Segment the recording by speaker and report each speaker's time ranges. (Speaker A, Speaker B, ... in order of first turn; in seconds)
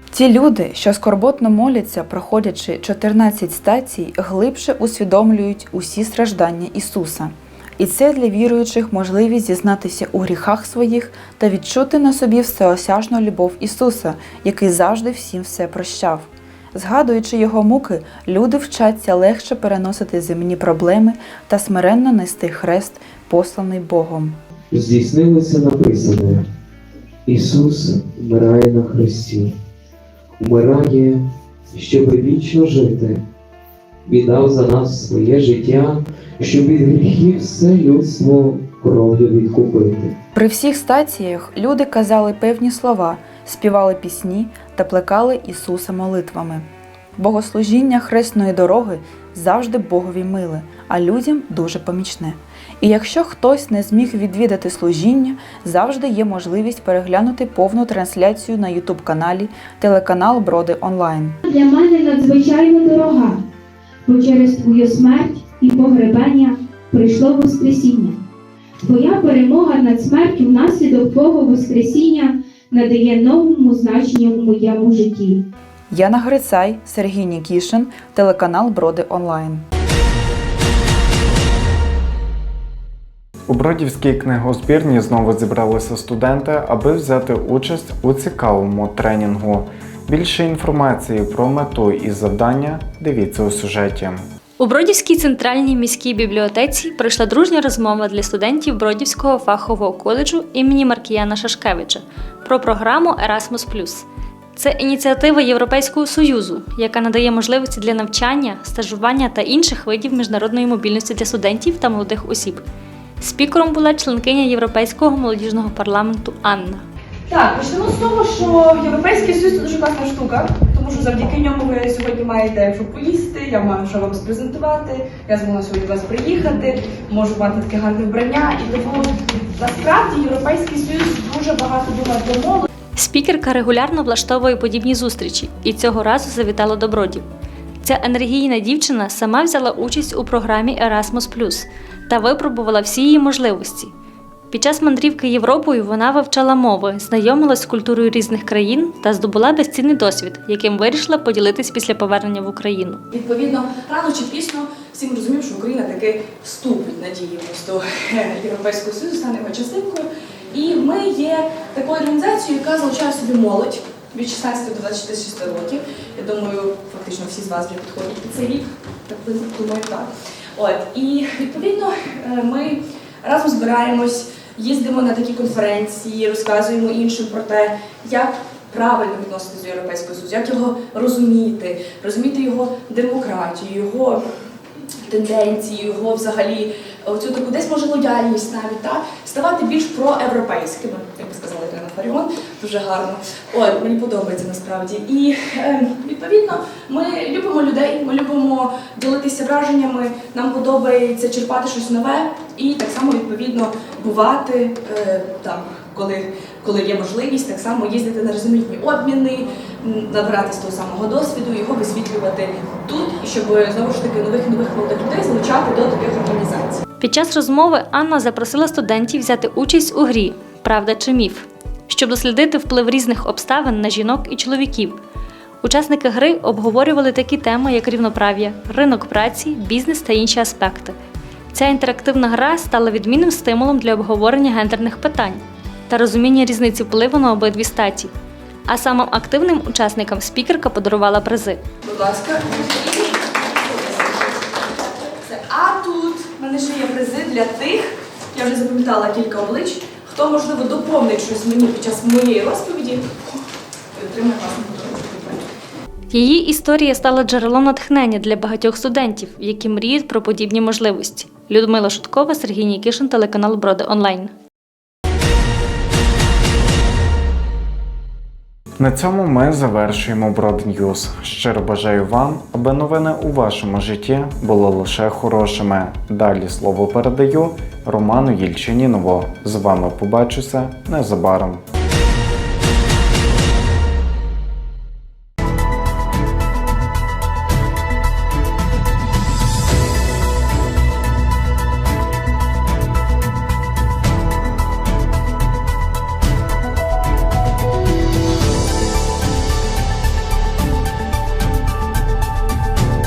Speaker A: 0.1-24.4, 40.4-61.4, 75.9-79.7
Speaker B: 24.7-26.4, 27.3-29.5, 30.4-33.2, 34.0-40.1
Speaker C: 61.5-63.4, 64.1-68.2, 68.8-75.4
Speaker D: 83.5-94.3, 268.8-281.6
Speaker E: 94.6-112.7, 113.2-116.8, 133.0-137.2, 137.8-143.9, 144.5-153.0, 217.0-225.0, 225.6-231.0, 231.5-238.1, 238.7-241.6, 256.1-264.3
Speaker F: 117.3-132.7, 153.1-184.2, 185.1-216.8, 241.8-253.4, 253.9-255.5